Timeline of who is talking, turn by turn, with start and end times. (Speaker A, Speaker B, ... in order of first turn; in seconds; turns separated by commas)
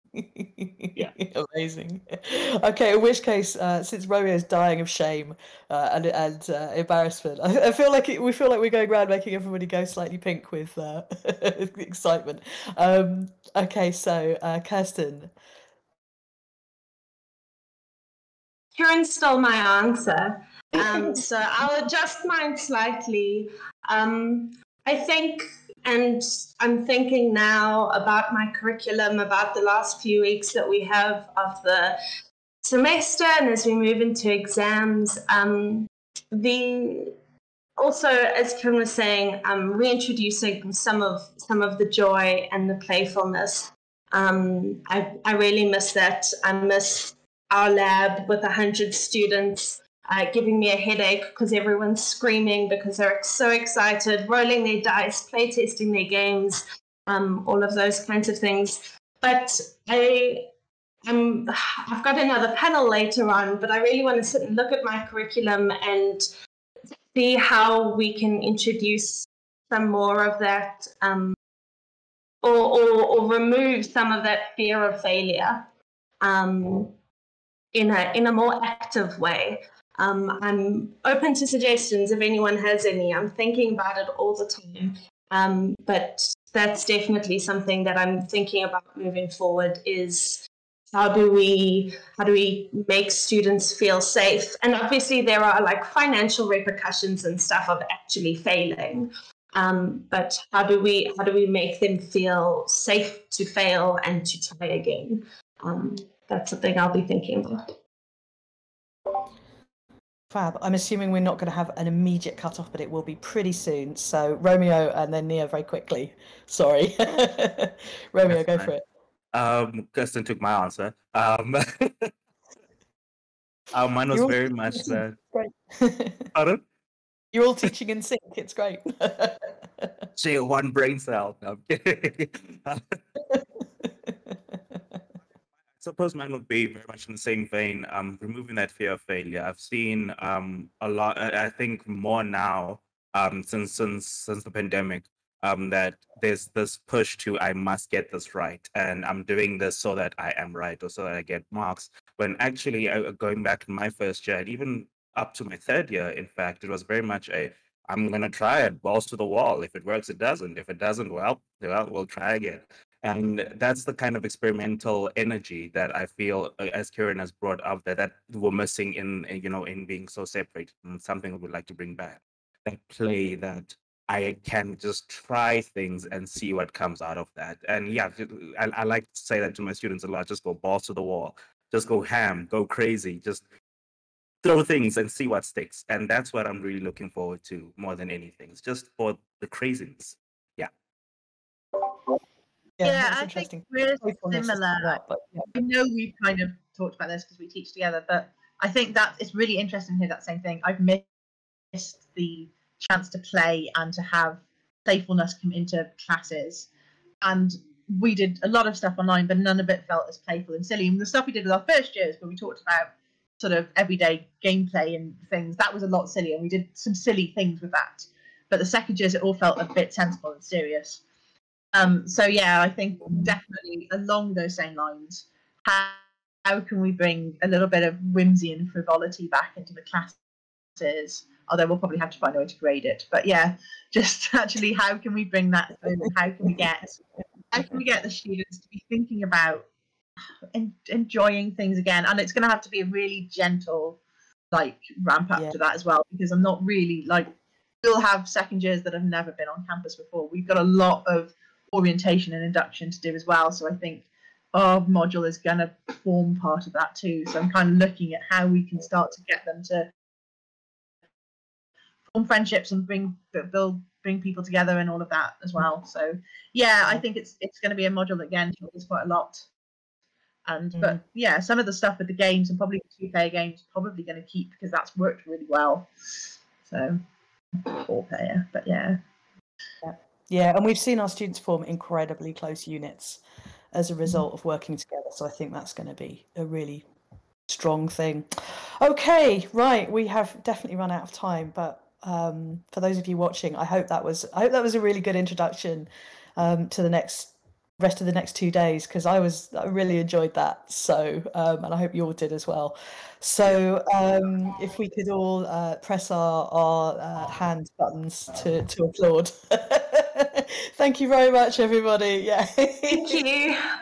Speaker A: 0.1-15.3, Speaker B: 18.7-32.0, Speaker B: 32.6-37.1, Speaker B: 37.8-60.5, Speaker B: 61.0-66.3, Speaker B: 67.1-71.4, Speaker B: 72.4-75.7, Speaker B: 76.2-76.9, Speaker B: 77.7-107.7, Speaker A: 110.3-118.8, Speaker C: 118.2-118.7, Speaker C: 119.3-122.1, Speaker C: 123.7-125.2, Speaker A: 124.1-126.3, Speaker C: 126.3-126.6, Speaker A: 127.3-130.0, Speaker C: 130.2-133.0, Speaker A: 133.3-134.8, Speaker C: 135.8-183.4, Speaker C: 184.4-190.7, Speaker A: 192.8-195.5, Speaker D: 192.8-195.0, Speaker D: 195.5-201.1, Speaker D: 201.7-206.7, Speaker D: 207.2-221.0, Speaker D: 221.7-230.2, Speaker D: 230.8-239.7, Speaker D: 240.5-244.0, Speaker D: 244.5-259.9, Speaker D: 262.1-269.5, Speaker D: 270.4-275.9, Speaker D: 276.6-277.0, Speaker D: 277.6-279.0, Speaker A: 279.8-286.9, Speaker A: 287.5-313.2, Speaker B: 312.9-313.6